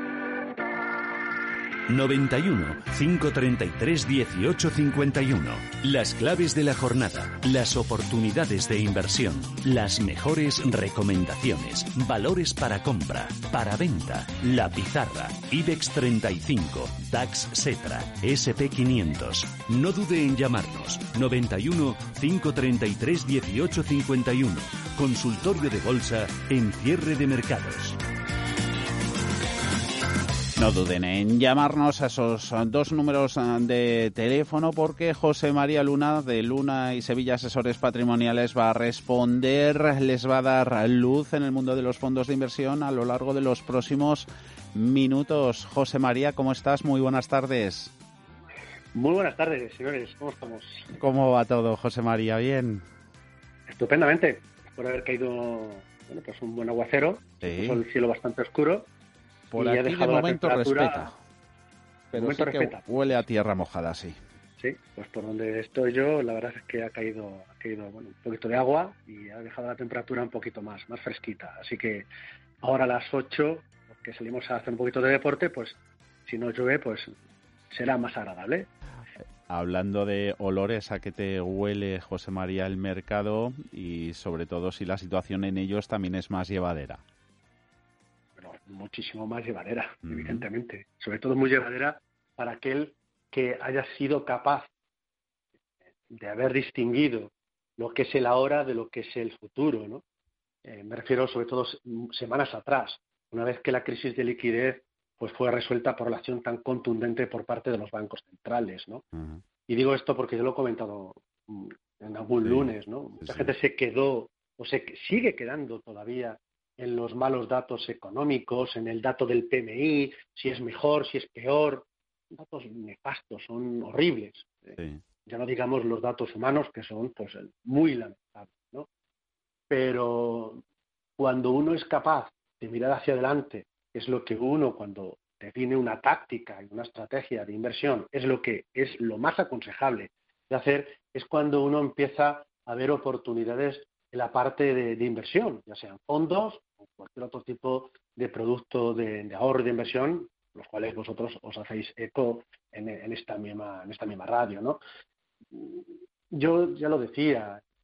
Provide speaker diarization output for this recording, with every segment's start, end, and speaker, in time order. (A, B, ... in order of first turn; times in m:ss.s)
0:01.9-0:28.0 A
0:30.6-0:48.0 B
0:48.9-0:50.9 C
0:50.9-0:52.8 B
0:53.7-0:58.9 C
0:57.4-0:57.8 B
0:59.5-1:01.2 B
0:59.6-1:01.1 C
1:02.1-1:04.2 B
1:02.1-1:03.2 C
1:04.6-1:12.1 C
1:12.6-1:17.1 C
1:17.7-1:18.7 C
1:19.5-1:27.0 B
1:28.4-1:34.7 C
1:30.1-1:30.4 B
1:36.1-1:40.0 C
1:40.6-1:49.0 C
1:49.2-1:49.4 B
1:49.7-2:08.9 C
1:52.4-1:52.7 B
1:53.2-1:53.5 B
2:09.7-2:10.6 C
2:11.2-2:34.8 C
2:35.5-2:37.6 C